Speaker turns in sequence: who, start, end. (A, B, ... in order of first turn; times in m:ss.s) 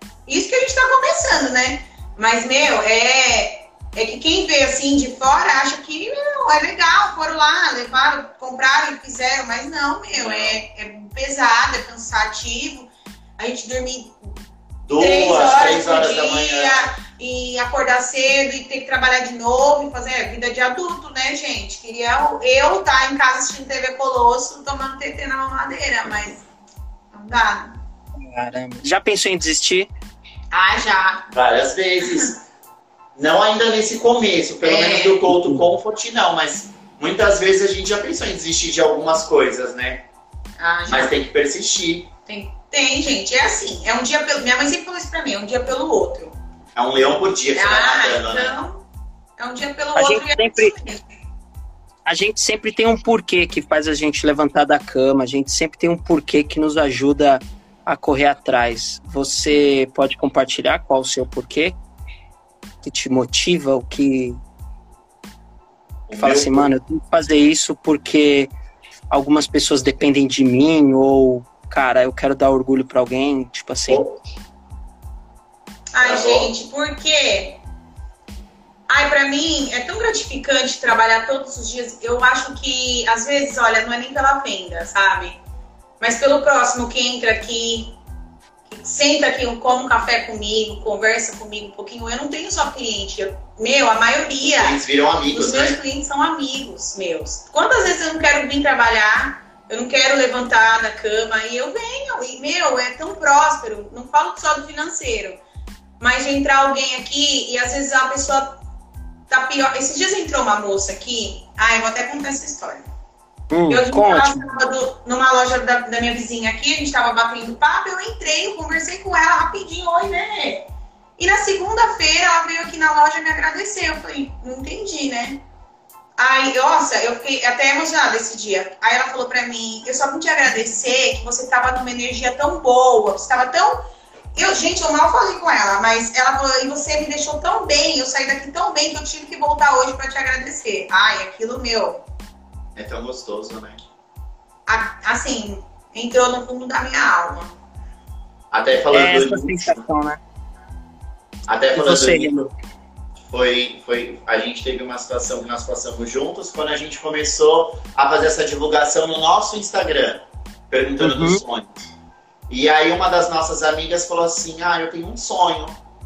0:00.3-0:14.2 A
0:10.1-0:10.6 B
0:14.9-0:16.9 B
0:15.0-0:26.5 A
0:27.1-0:27.8 A
0:28.2-0:29.9 C
0:30.5-0:31.3 A
0:31.3-0:32.4 B
0:33.2-0:40.0 B
0:34.6-0:35.2 A
0:35.3-0:35.6 C
0:40.6-0:41.2 A
0:40.9-0:42.1 B
0:42.3-0:46.4 A
0:46.8-0:48.6 B
0:47.6-0:48.8 A
0:49.4-0:51.0 A
0:50.0-0:50.8 C
0:52.1-1:01.8 C
1:02.8-1:04.4 C
1:06.1-1:06.7 B
1:06.2-1:08.5 C
1:09.1-1:14.0 C
1:13.9-1:14.2 B
1:15.9-1:17.6 A
1:16.0-1:16.5 B
1:18.9-1:25.4 A
1:26.0-1:28.0 A
1:28.7-1:34.8 A
1:34.4-1:35.8 B
1:35.3-1:45.4 A
1:46.0-1:48.6 A
1:49.3-1:52.9 A
1:53.5-1:54.4 C
1:53.7-2:05.4 A
2:06.2-2:22.0 A
2:22.8-2:23.8 B
2:24.7-2:27.5 A
2:28.5-2:29.8 B
2:28.9-2:30.2 C
2:31.5-2:32.3 B
2:31.7-2:32.5 C
2:33.3-2:41.8 B
2:41.0-2:41.4 C
2:42.5-2:45.8 B